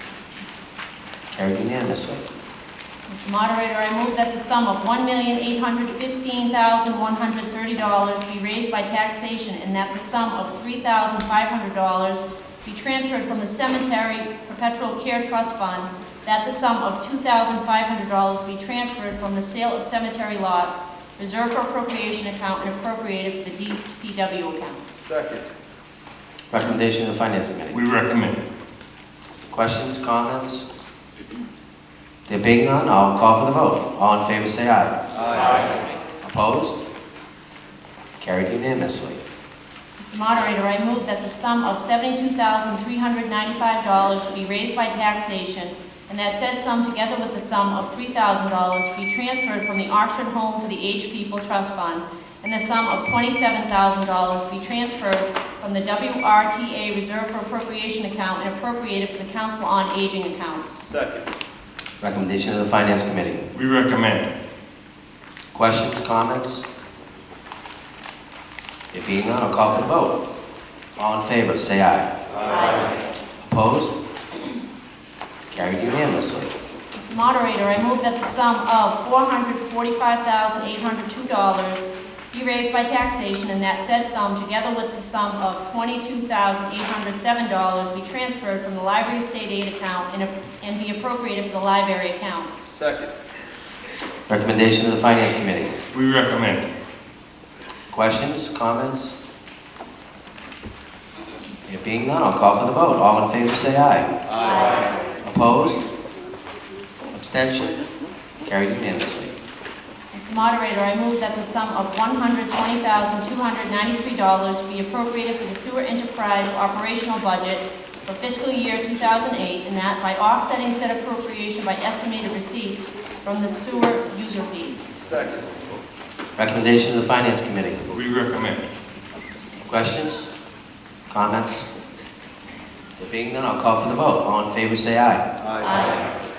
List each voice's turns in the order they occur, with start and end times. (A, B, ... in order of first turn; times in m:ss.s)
0:01.3-0:02.2 A
0:03.1-0:25.0 B
0:25.0-0:25.5 C
0:26.5-0:27.8 A
0:27.7-0:28.4 D
0:29.5-0:30.6 A
0:32.3-0:35.0 A
0:35.1-0:35.7 C
0:36.2-0:36.8 A
0:38.2-0:39.2 A
0:40.0-1:00.8 B
1:00.8-1:01.3 C
1:02.0-1:03.5 A
1:03.5-1:04.3 D
1:05.5-1:06.6 A
1:08.9-1:10.2 A
1:11.0-1:12.1 A
1:12.5-1:12.9 B
1:13.4-1:14.0 A
1:15.5-1:16.6 A
1:16.9-1:32.7 B
1:32.7-1:33.1 C
1:34.3-1:35.7 A
1:35.9-1:36.6 D
1:37.9-1:39.1 A
1:41.6-1:44.2 A
1:44.3-1:44.6 C
1:44.4-1:44.9 B
1:45.2-1:45.8 A
1:47.1-1:47.8 A
1:48.4-1:49.4 A
1:50.1-2:04.9 B
2:05.0-2:05.5 C
2:06.4-2:07.8 A
2:07.9-2:08.7 D
2:09.6-2:10.3 A
2:11.1-2:11.7 A
2:13.0-2:15.2 A
2:15.4-2:15.8 C
2:15.6-2:16.0 B